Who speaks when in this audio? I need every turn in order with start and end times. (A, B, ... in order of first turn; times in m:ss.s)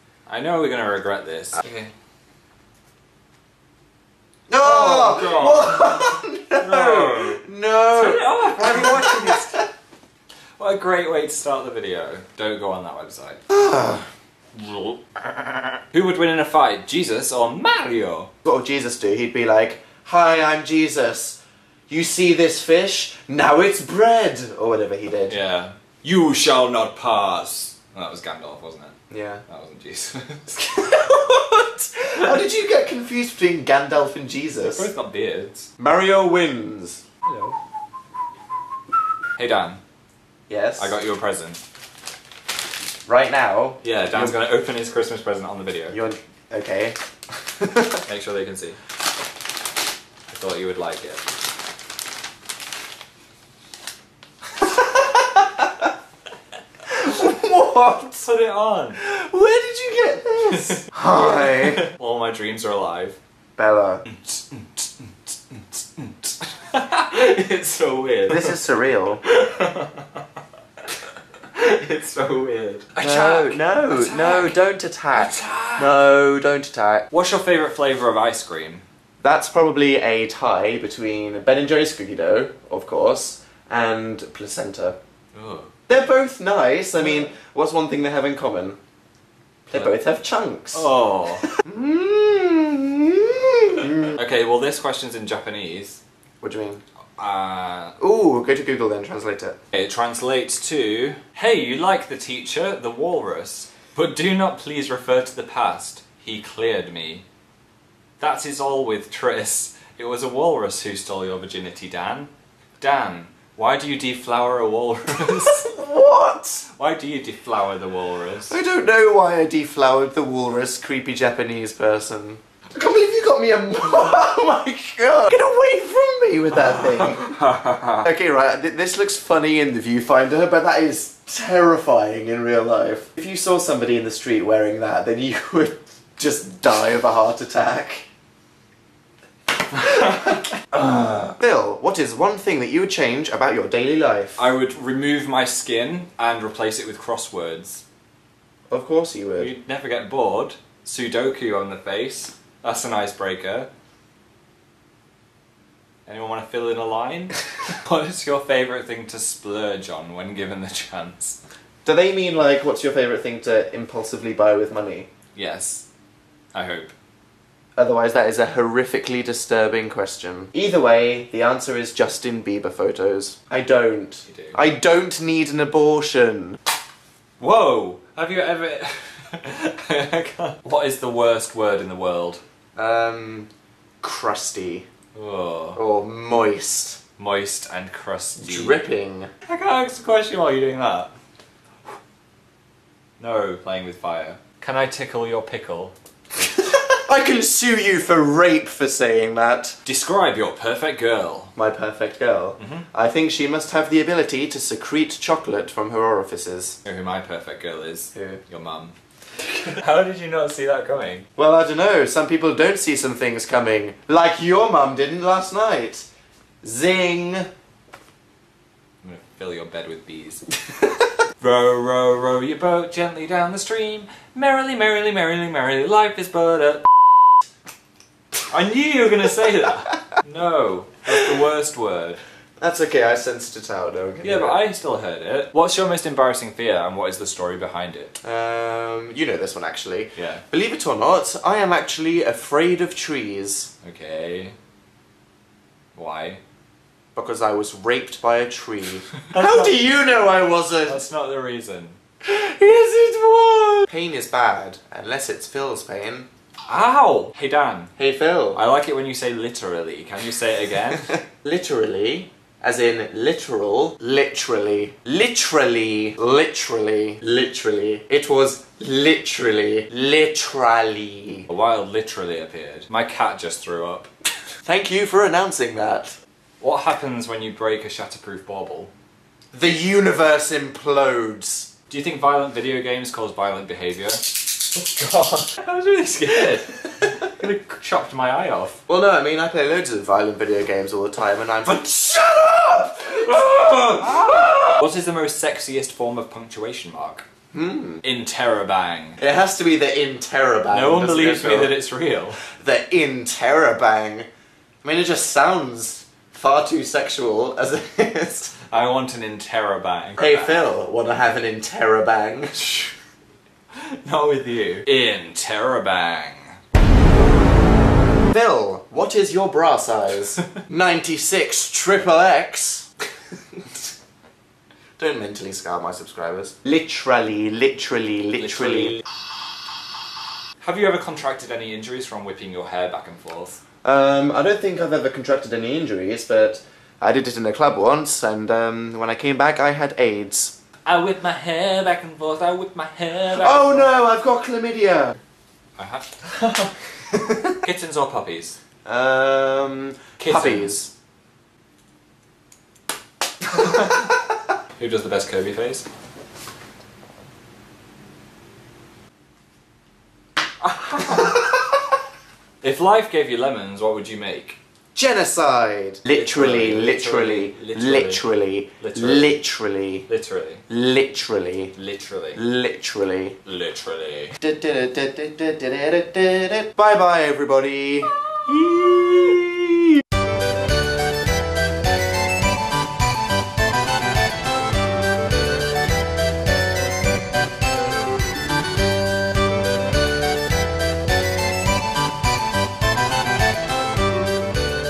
0:00.2-0:01.9 A
0:04.5-0:09.7 B
0:04.6-0:07.4 A
0:07.9-0:09.6 A
0:10.6-0:13.4 A
0:13.5-0:14.1 B
0:14.5-0:18.3 A
0:18.4-0:25.4 B
0:25.3-0:28.9 A
0:29.1-0:29.4 B
0:29.5-0:30.6 A
0:30.6-0:34.9 B
0:34.6-0:35.7 A
0:35.8-0:37.0 B
0:37.2-0:37.6 A
0:39.4-0:39.8 A
0:40.5-0:41.0 B
0:40.8-0:41.6 A
0:43.0-0:44.4 B
0:43.8-0:46.0 A
0:45.9-0:48.0 B
0:48.0-0:48.8 A
0:50.3-0:51.2 A
0:54.6-0:55.7 B
0:56.9-0:58.3 B
0:58.2-0:59.0 A
0:59.0-1:01.8 B
1:00.5-1:03.2 A
1:03.6-1:04.0 B
1:04.1-1:08.6 A
1:08.3-1:09.2 B
1:09.2-1:10.2 A
1:11.5-1:14.6 A
1:13.0-1:17.1 B
1:15.1-1:15.9 A
1:17.1-1:18.8 A
1:19.2-1:25.0 B
1:25.3-1:25.8 A
1:25.9-1:28.8 B
1:29.7-1:30.9 B
1:30.7-1:31.5 A
1:31.5-1:34.1 B
1:33.8-1:36.0 A
1:36.4-1:36.8 B
1:37.2-1:38.0 A
1:38.0-1:39.6 B
1:39.7-1:47.2 A
1:48.2-1:55.7 A
1:55.2-1:56.7 B
1:56.8-1:58.6 A
1:58.5-2:07.4 B
2:06.8-2:08.0 A
2:07.9-2:18.0 B
2:19.8-2:21.2 A
2:20.0-2:24.5 B
2:24.4-2:27.8 A
2:28.7-2:29.5 B
2:29.4-2:33.7 A
2:36.0-2:41.4 A
2:41.8-2:45.1 B
2:45.3-2:45.8 A
2:46.5-2:46.9 A
2:47.8-2:56.6 B
2:54.3-2:54.6 A
2:57.4-3:02.4 A
3:02.8-3:03.5 B
3:04.0-3:04.9 B
3:05.1-3:05.8 A
3:05.8-3:07.0 B
3:07.2-3:08.8 A
3:08.4-3:09.3 B
3:09.4-3:11.1 A
3:13.2-3:15.9 A
3:16.4-3:19.8 B
3:19.8-3:21.5 A
3:21.6-3:26.8 B
3:22.6-3:22.9 A
3:26.8-3:31.2 A
3:28.1-3:28.4 B
3:31.4-3:36.1 B
3:36.6-3:37.5 B
3:39.0-3:40.4 A
3:41.4-3:47.3 A
3:48.5-3:52.2 A
3:52.6-3:54.6 B
3:54.2-3:58.2 A
3:58.2-4:03.7 B
4:00.2-4:00.4 A
4:03.8-4:04.5 A
4:05.9-4:06.4 A
4:07.1-4:11.0 B
4:09.3-4:09.7 A
4:10.8-4:12.0 A
4:12.2-4:16.3 B
4:16.7-4:17.9 A
4:18.0-4:18.6 B
4:18.5-4:21.1 A
4:21.2-4:31.5 B
4:31.5-4:34.1 A
4:34.6-4:36.2 B
4:36.6-4:38.9 A
4:39.5-4:41.7 B
4:41.9-4:48.8 A
4:48.9-4:54.8 B
4:53.1-4:57.2 A
4:57.5-4:58.0 B
4:58.0-4:59.2 A
4:59.2-5:01.7 B
5:00.7-5:02.5 A
5:02.5-5:04.3 B
5:04.8-5:08.6 B
5:08.7-5:10.7 A
5:10.2-5:12.8 B
5:12.6-5:12.9 A
5:13.7-5:16.6 A
5:18.3-5:22.9 B
5:25.0-5:29.0 B
5:28.5-5:29.0 A
5:30.6-5:33.6 A
5:33.8-5:40.5 B
5:40.8-5:43.9 A
5:43.3-5:45.2 B
5:45.8-5:46.7 A
5:47.1-5:47.5 B
5:47.6-5:48.6 A
5:48.8-5:50.9 B
5:50.2-5:50.8 A
5:53.5-5:54.1 A
5:54.8-5:55.8 A
6:00.6-6:01.6 A
6:02.6-6:04.6 A
6:04.9-6:10.1 B
6:06.1-6:08.2 A
6:08.8-6:09.4 A
6:10.1-6:10.6 A
6:10.7-6:11.7 B
6:11.8-6:12.4 A
6:12.3-6:13.4 B
6:13.4-6:14.4 A
6:14.4-6:19.7 B